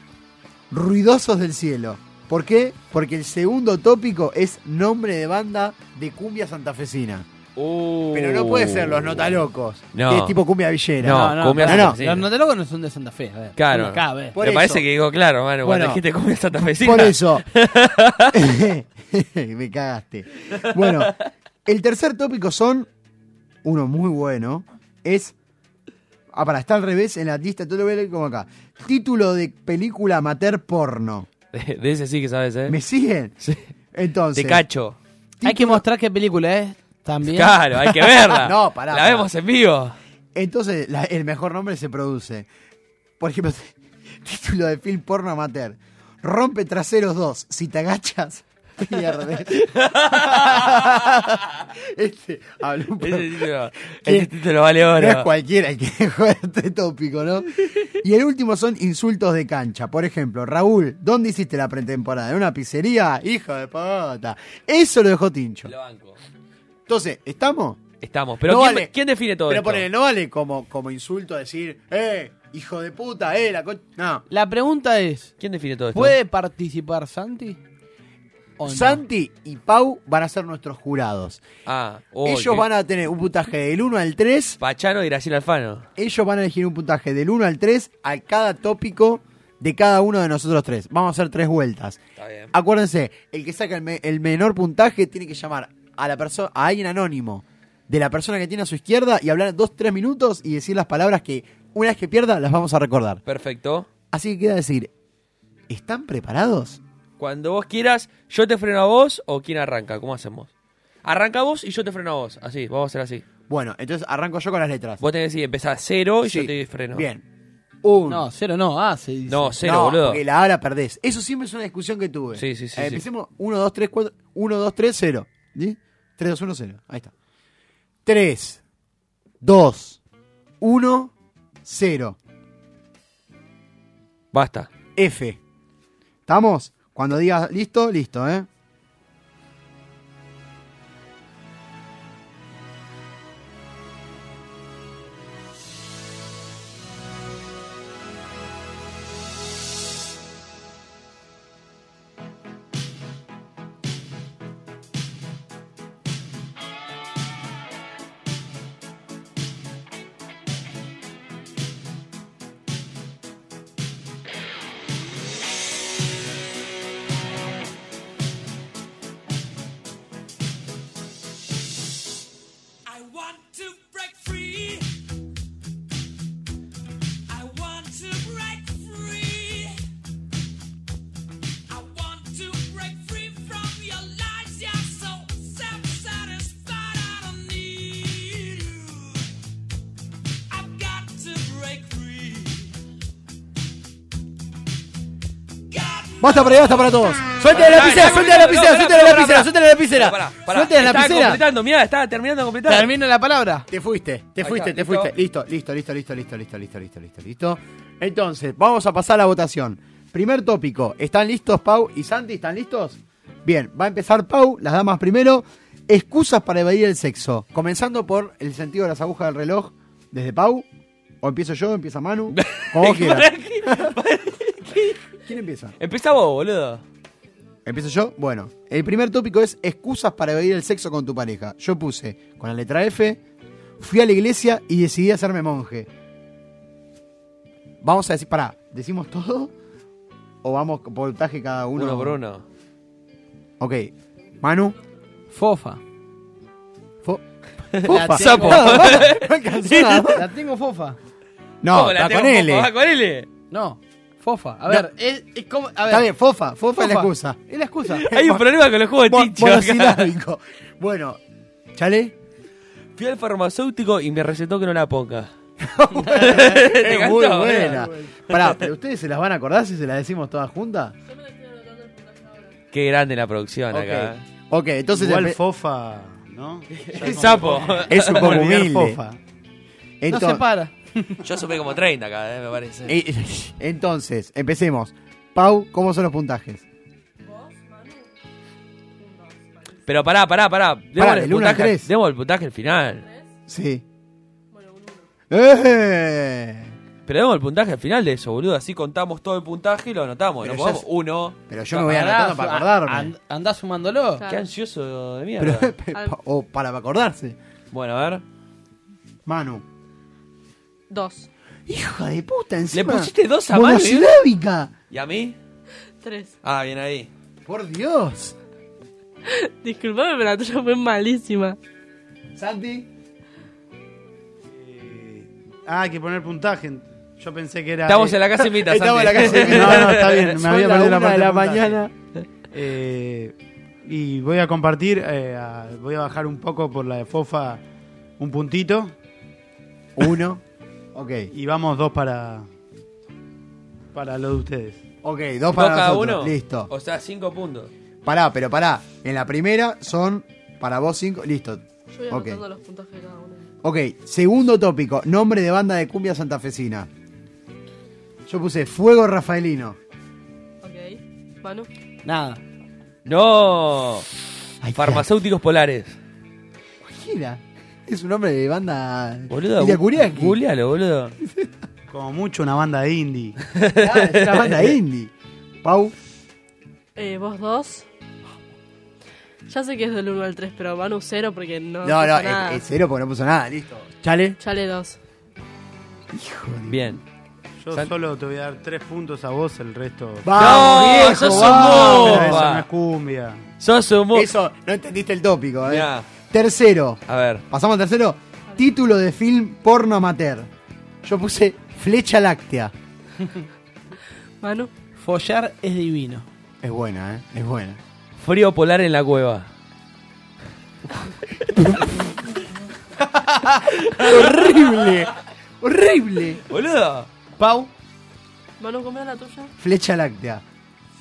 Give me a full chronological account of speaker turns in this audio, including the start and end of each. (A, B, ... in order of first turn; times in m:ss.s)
0:00.7-0:07.3 A
0:07.6-0:09.4 B
0:08.1-0:12.0 A
0:09.9-0:10.4 B
0:11.0-0:12.3 B
0:11.0-0:14.4 C
0:13.6-0:18.4 B
0:14.4-0:14.8 A
0:15.6-0:16.0 A
0:16.8-0:17.4 A
0:18.3-0:21.2 A
0:20.8-0:21.2 B
0:21.7-0:22.9 A
0:23.6-0:25.4 A
0:26.3-0:31.3 A
0:31.5-0:32.8 B
0:32.7-0:33.4 A
0:33.9-0:34.6 A
0:34.4-0:35.0 B
0:35.4-0:35.8 A
0:35.4-0:38.0 C
0:37.3-0:40.0 B
0:38.3-0:39.3 A
0:40.4-0:42.5 A
0:43.2-0:54.3 A
0:49.5-0:51.4 B
0:53.0-0:55.3 B
0:54.9-1:05.7 A
1:05.7-1:06.2 B
1:06.9-1:07.9 A
1:08.0-1:09.8 B
1:08.4-1:08.9 A
1:09.5-1:14.2 A
1:14.3-1:15.3 C
1:15.4-1:16.2 B
1:15.9-1:17.6 C
1:18.6-1:19.0 C
1:18.7-1:21.4 A
1:21.7-1:22.7 B
1:22.2-1:24.6 A
1:24.6-1:25.9 B
1:26.0-1:32.0 A
1:32.2-1:32.5 B
1:32.5-1:43.2 A
1:43.3-1:43.9 B
1:44.1-1:44.9 A
1:45.7-1:46.8 A
1:47.2-1:50.5 B
1:51.0-1:53.2 B
1:53.5-1:55.0 A
1:55.0-1:57.1 B
1:56.2-1:57.2 A
1:57.8-1:58.2 A
1:58.1-1:59.6 C
1:59.3-2:00.2 B
1:59.6-2:07.1 A
2:02.4-2:03.0 B
2:08.1-2:08.6 A
2:09.4-2:10.0 A
2:10.6-2:11.1 A
2:11.6-2:12.2 A
2:14.3-2:14.7 B
2:15.0-2:15.4 A
2:16.3-2:18.5 A
3:16.2-3:20.2 A
3:16.3-3:16.7 B
3:17.3-3:22.9 B
3:20.5-3:21.4 C
3:20.9-3:21.3 A
3:22.7-3:23.7 C
3:23.7-3:40.7 A
3:24.4-3:25.1 B
3:41.2-3:44.0 A
3:42.3-3:45.0 B
3:45.2-3:45.8 A
3:45.8-3:46.8 B
3:47.7-3:53.2 A
3:53.8-3:55.9 A
3:57.8-3:59.5 A
4:00.4-4:02.2 A
4:01.8-4:02.4 B
4:03.6-4:04.8 A
4:05.3-4:05.8 C
4:07.7-4:10.2 B
4:07.8-4:10.3 A
4:07.9-4:09.0 C
4:10.1-4:11.0 C
4:11.6-4:12.7 A
4:11.7-4:13.3 B
4:13.5-4:16.1 C
4:15.9-4:17.4 A
4:16.7-4:18.1 C
4:18.0-4:20.1 B
4:18.0-4:18.5 A
4:19.0-4:21.2 A
4:21.7-4:22.2 A
4:23.0-4:25.3 B
4:25.6-4:31.0 A
4:26.1-4:28.6 B
4:27.6-4:28.1 C
4:31.1-4:32.6 D
4:32.7-4:34.2 B
4:33.7-4:35.4 A
4:35.0-4:39.2 E
4:36.8-4:38.5 B
4:37.0-4:39.0 A
4:40.0-4:40.4 A
4:40.1-4:40.7 C
4:41.2-4:43.0 B
4:42.9-4:46.6 A
4:47.2-4:48.2 D
4:49.0-4:49.9 D
4:49.9-4:53.0 B
4:51.0-4:51.9 A
4:53.0-4:53.3 D
4:53.5-4:53.8 A
4:54.5-4:55.1 D
4:55.3-4:56.8 A
4:57.1-5:01.4 B
5:00.4-5:00.8 A
5:01.5-5:03.1 A
5:01.8-5:04.2 C
5:04.2-5:04.5 D
5:04.3-5:05.7 B
5:05.4-5:07.4 A
5:07.7-5:08.2 B
5:09.3-5:09.6 A
5:10.9-5:11.3 D
5:11.7-5:14.7 A
5:12.7-5:14.1 B
5:14.9-5:15.4 B
5:16.0-5:16.4 D
5:16.4-5:17.1 B
5:17.4-5:18.4 A
5:19.3-5:21.6 D
5:22.4-5:22.9 A
5:24.5-5:28.2 E
5:27.9-5:30.3 B
5:28.4-5:31.9 A
5:29.2-5:31.8 E
5:32.5-5:37.6 E
5:38.2-5:38.9 E
5:40.0-5:40.4 A
5:40.9-5:41.3 A
5:41.3-5:42.5 E
5:43.9-5:44.8 E
5:45.0-5:46.7 A
5:45.5-5:47.7 B
5:48.0-5:52.4 A
5:51.9-5:53.5 D
5:53.6-5:56.9 A
5:58.3-5:59.8 A
6:00.6-6:01.7 D
6:02.0-6:02.4 C
6:03.0-6:04.1 B
6:04.6-6:05.1 A
6:04.7-6:06.0 B
6:06.8-6:10.4 A
6:09.3-6:11.2 B
6:11.9-6:13.4 E
6:13.6-6:14.7 B
6:13.8-6:15.1 A
6:15.6-6:16.0 A
6:17.0-6:17.9 D
6:19.5-6:22.6 D
6:21.8-6:24.4 A
6:24.4-6:25.0 D
6:26.1-6:27.0 A
6:26.7-6:27.0 B
6:27.6-6:33.4 E
6:30.2-6:32.5 A
6:30.4-6:32.7 B
6:33.6-6:34.3 B
6:34.1-6:40.5 A
6:35.7-6:36.1 B
6:37.1-6:37.4 B
6:41.0-6:42.7 A
6:44.4-6:44.7 D
6:45.0-6:46.3 C
6:46.6-6:47.8 A
6:48.2-6:49.5 B
6:53.3-6:53.6 C
6:53.8-6:56.4 A
6:53.9-6:55.0 B
6:56.5-6:57.1 B
6:57.4-6:57.7 C
6:58.6-6:59.5 D
6:59.6-7:00.4 A